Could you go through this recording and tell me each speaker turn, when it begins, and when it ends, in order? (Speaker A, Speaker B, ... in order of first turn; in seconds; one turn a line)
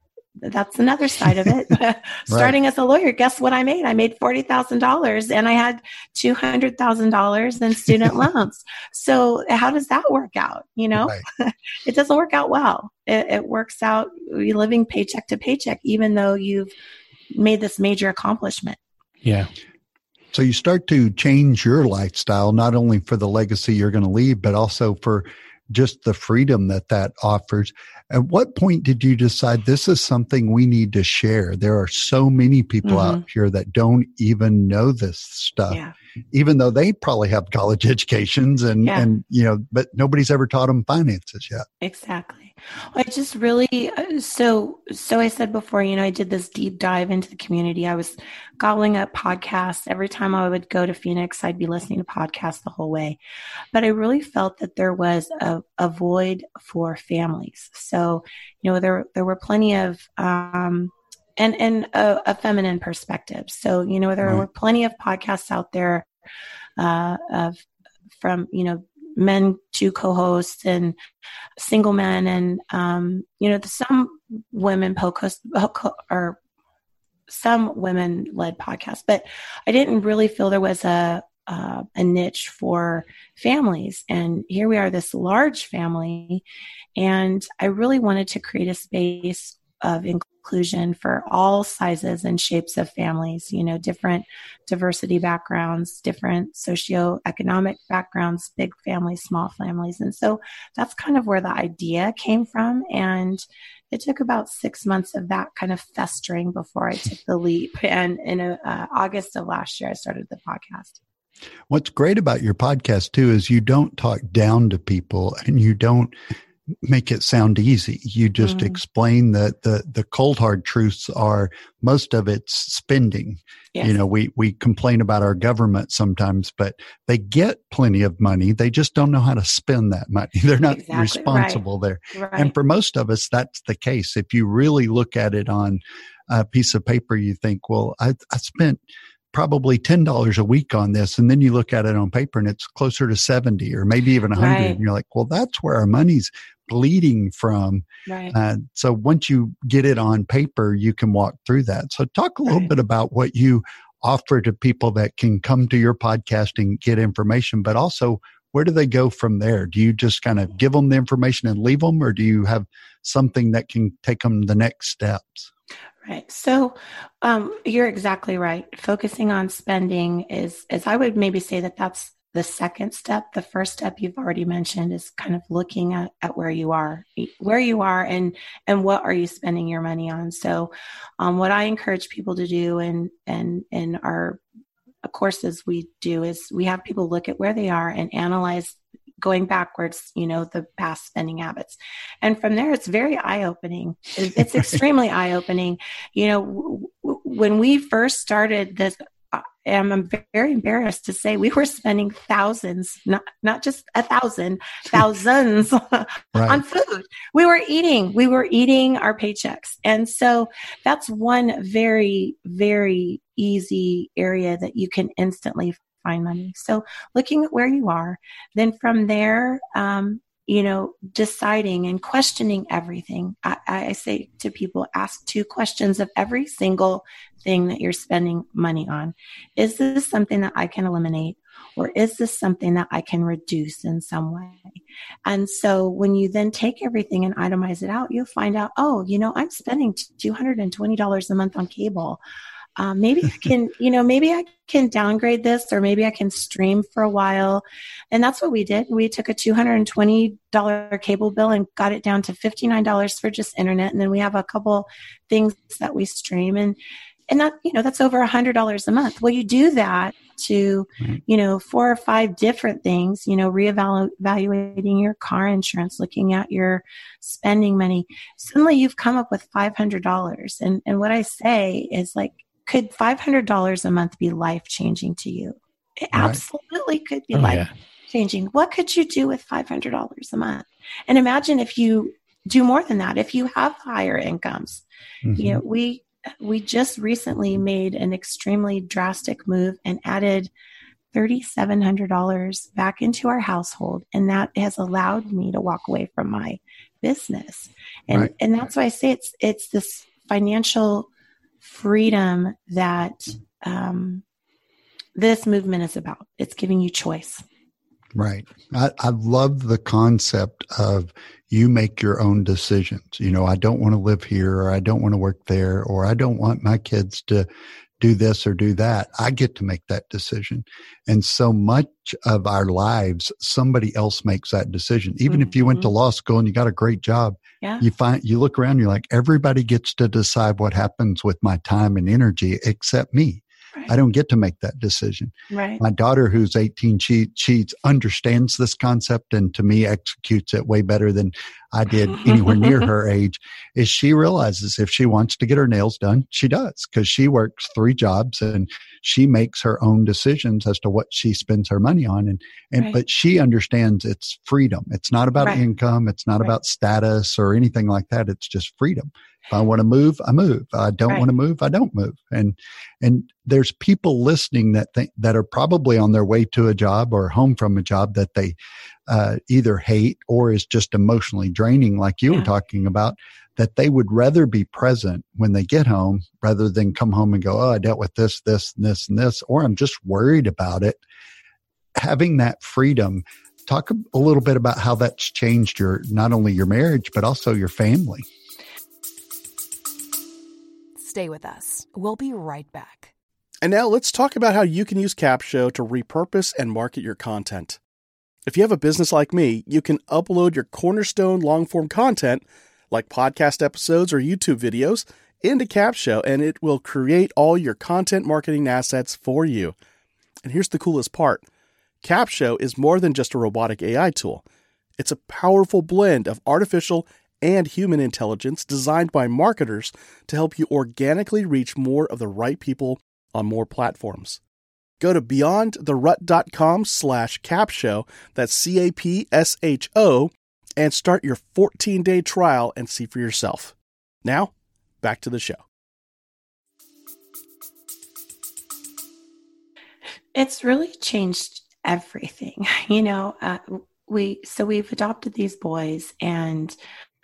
Speaker A: 0.4-16.7
Speaker B: 2.3-2.5
Speaker B: 11.0-11.2
Speaker A: 17.3-18.8
Speaker C: 19.2-19.5
Speaker B: 20.3-35.8
Speaker A: 32.8-33.2
Speaker B: 36.3-41.6
Speaker A: 41.8-53.2
Speaker A: 53.7-66.1
Speaker A: 66.8-67.6
Speaker A: 68.2-71.0
Speaker A: 71.6-76.4
Speaker A: 77.3-86.4
Speaker A: 87.0-111.0
Speaker B: 111.7-116.2
Speaker B: 116.8-138.8
Speaker A: 118.4-118.8
Speaker A: 130.7-131.6
Speaker A: 132.1-132.5
Speaker B: 139.3-165.5
Speaker A: 144.4-144.8
Speaker A: 148.1-148.3
Speaker A: 166.0-184.4
Speaker A: 185.1-242.2
Speaker B: 206.3-206.6
Speaker A: 242.8-256.8
Speaker A: 257.3-284.9
Speaker B: 276.1-276.4
Speaker C: 277.3-277.7
Speaker B: 285.2-285.6
Speaker A: 285.4-290.5
Speaker A: 291.1-301.1
Speaker A: 301.6-304.2
Speaker A: 305.2-307.4
Speaker B: 308.1-317.5
Speaker B: 318.0-368.6
Speaker A: 325.3-325.9
Speaker A: 335.5-335.8
Speaker A: 342.2-342.9
Speaker B: 369.1-381.0
Speaker B: 382.0-388.2
Speaker D: 391.0-393.1
Speaker C: 393.6-397.8
Speaker C: 398.5-409.7
Speaker C: 410.4-411.4
Speaker C: 412.0-414.4
Speaker C: 415.0-424.4
Speaker C: 425.0-434.5
Speaker C: 435.0-435.6
Speaker A: 440.4-446.8